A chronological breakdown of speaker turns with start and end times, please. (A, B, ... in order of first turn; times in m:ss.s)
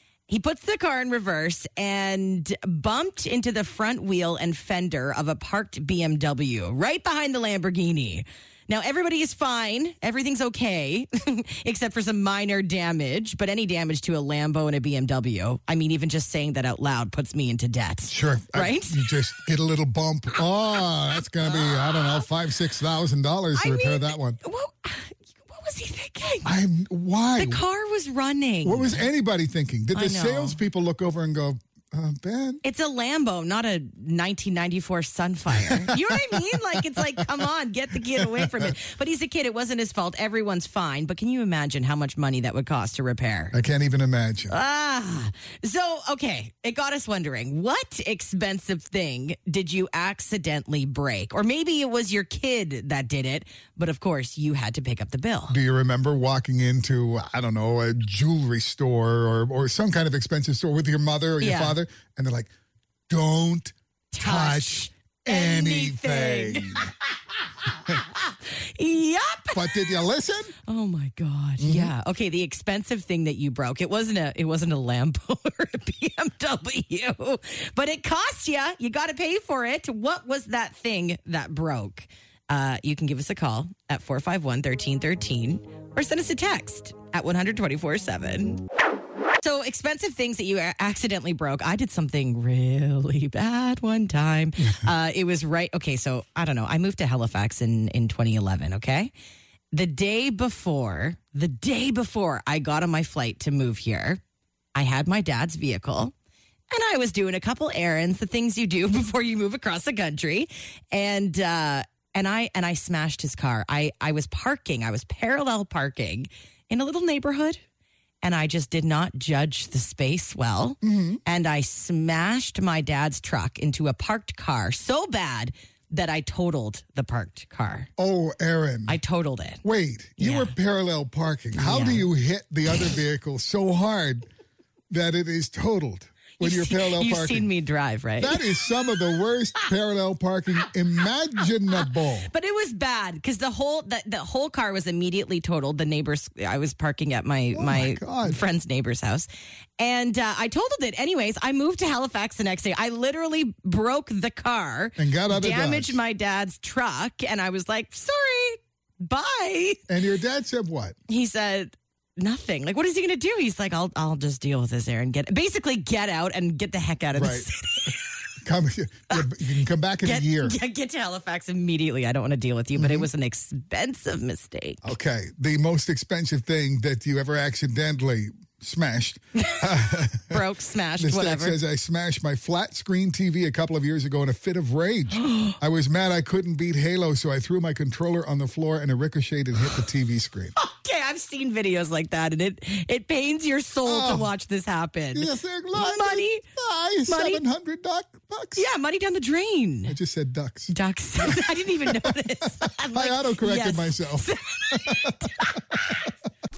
0:00.3-0:19.0 A
0:18.1-0:24.4 B
0:21.4-0:22.2 A
0:23.6-0:26.5 A
0:26.4-0:27.6 B
0:27.4-0:29.1 A
0:28.6-0:32.6 B
0:29.9-0:30.6 A
0:32.6-0:43.5 A
0:35.5-0:37.4 B
0:38.2-0:38.7 B
0:43.5-0:44.6 B
0:44.5-0:55.6 A
0:55.5-1:02.5 B
1:01.4-1:01.8 A
1:03.1-1:06.9 B
1:04.1-1:06.9 A
1:07.6-1:09.9 A
1:09.5-1:10.5 B
1:10.7-1:28.6 A
1:11.6-1:11.9 B
1:29.4-1:39.1 A
1:39.7-1:44.2 A
1:44.8-1:46.1 A
1:46.7-1:57.6 A
1:58.2-2:07.9 A
2:00.8-2:01.2 B
2:08.0-2:09.0 B
2:08.9-2:09.6 A
2:09.6-2:14.3 B
2:10.2-2:10.5 A
2:11.6-2:12.1 A
2:14.9-2:17.5 B
2:16.4-2:18.4 A
2:18.2-2:22.3 B
2:21.7-2:29.3 A
2:27.5-2:28.4 B
2:29.8-2:39.8 A
2:35.0-2:36.0 B
2:39.9-2:41.0 B
2:41.1-2:48.0 A
2:47.2-2:47.5 B
2:48.4-2:50.6 B
2:50.0-2:54.8 A
2:52.8-2:53.1 B
2:54.8-3:00.4 B
2:59.4-3:01.6 A
3:01.0-3:10.5 B
3:05.1-3:05.6 A
3:10.6-3:16.4 A
3:13.8-3:14.3 B
3:15.1-3:18.7 B
3:17.1-3:17.4 A
3:18.6-3:20.0 A
3:19.9-3:25.6 B
3:20.7-3:26.0 A